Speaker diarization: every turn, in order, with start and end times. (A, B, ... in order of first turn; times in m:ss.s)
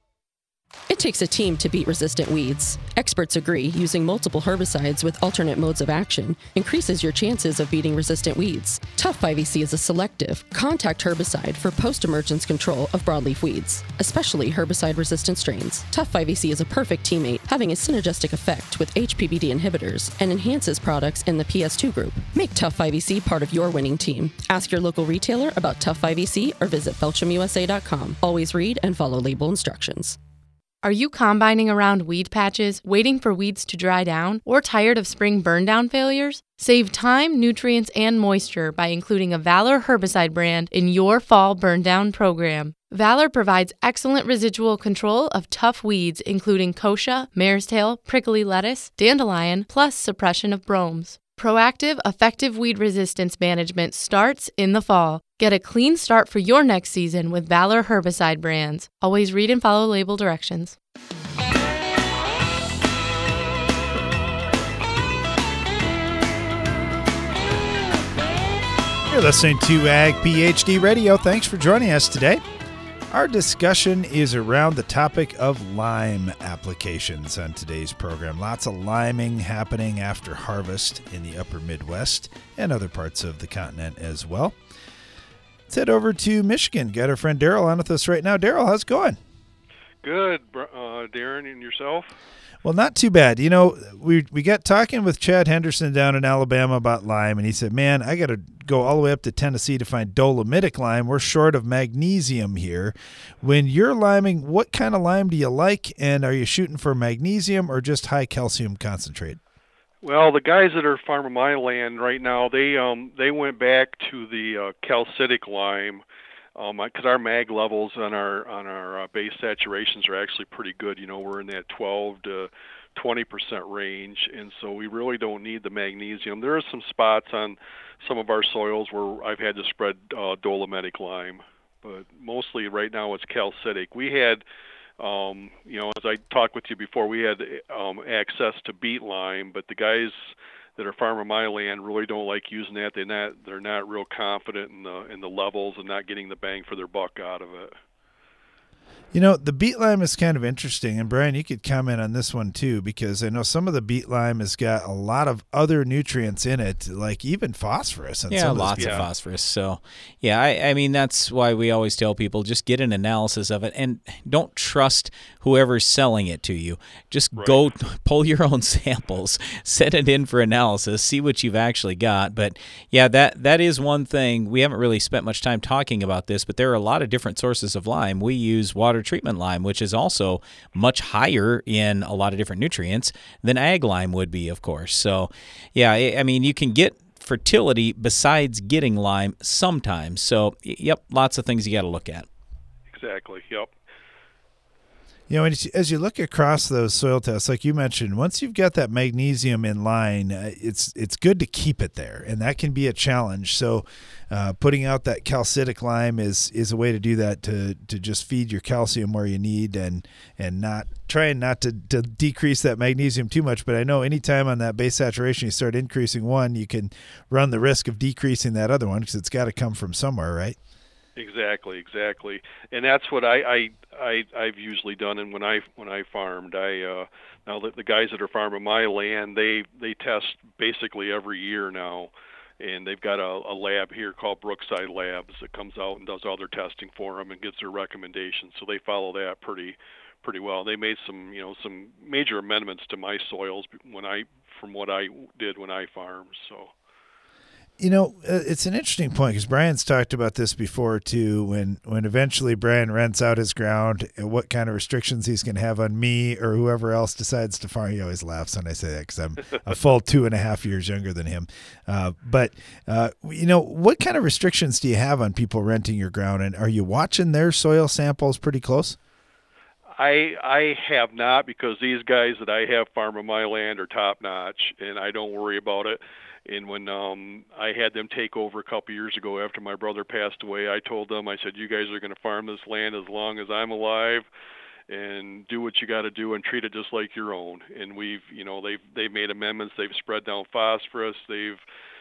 0:00.9-0:30.2 A
0:30.8-1:00.8 B
1:09.1-1:12.4 C
1:13.1-1:24.6 C
1:25.7-1:29.2 C
1:30.0-1:32.1 D
1:32.6-1:49.4 C
1:50.0-1:56.0 D
1:56.6-2:14.4 D
2:15.0-2:27.7 D
2:29.1-2:39.1 C
2:38.3-3:12.3 E
2:38.8-2:39.1 D
2:47.4-2:47.6 D
3:12.9-3:13.7 D
3:15.3-3:40.6 C
3:41.2-4:06.7 D
4:07.8-4:29.0 C
4:30.0-4:44.3 D
4:44.9-4:51.6 D